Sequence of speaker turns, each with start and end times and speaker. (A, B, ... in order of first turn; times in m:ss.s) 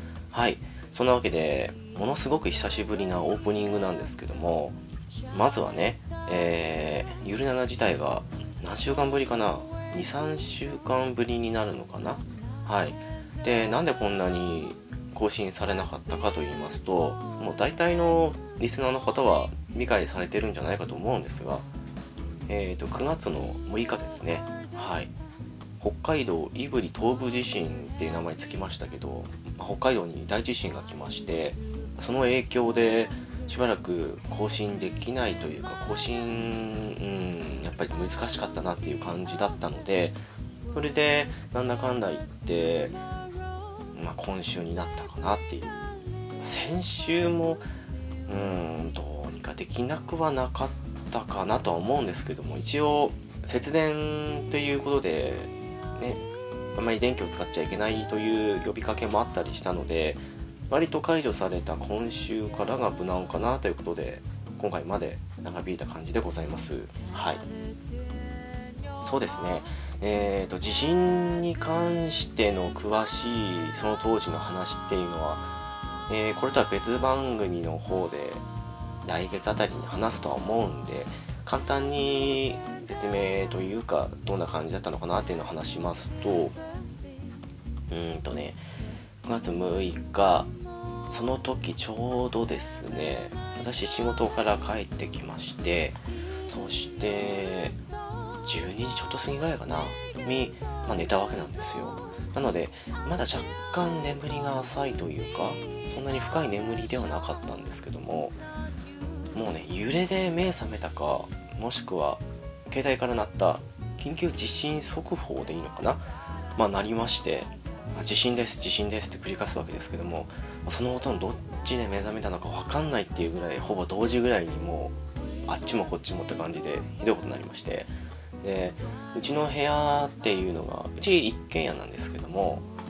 0:00.3-0:04.8 A
0:05.3-0:21.7 A
0:22.5-0:25.1 A
0:25.8-0:40.2 A
0:40.7-0:43.0 A
0:44.0-0:45.7 A
0:46.4-0:47.6 A
0:48.3-1:07.4 A
1:09.0-1:15.5 A
1:16.1-1:18.4 A
1:19.0-1:26.6 A
1:27.9-1:28.6 A
1:29.2-1:30.5 A
1:31.1-1:37.8 A
1:38.4-1:48.4 A
1:49.3-1:56.0 A
1:56.6-2:05.0 A
2:05.5-2:12.7 A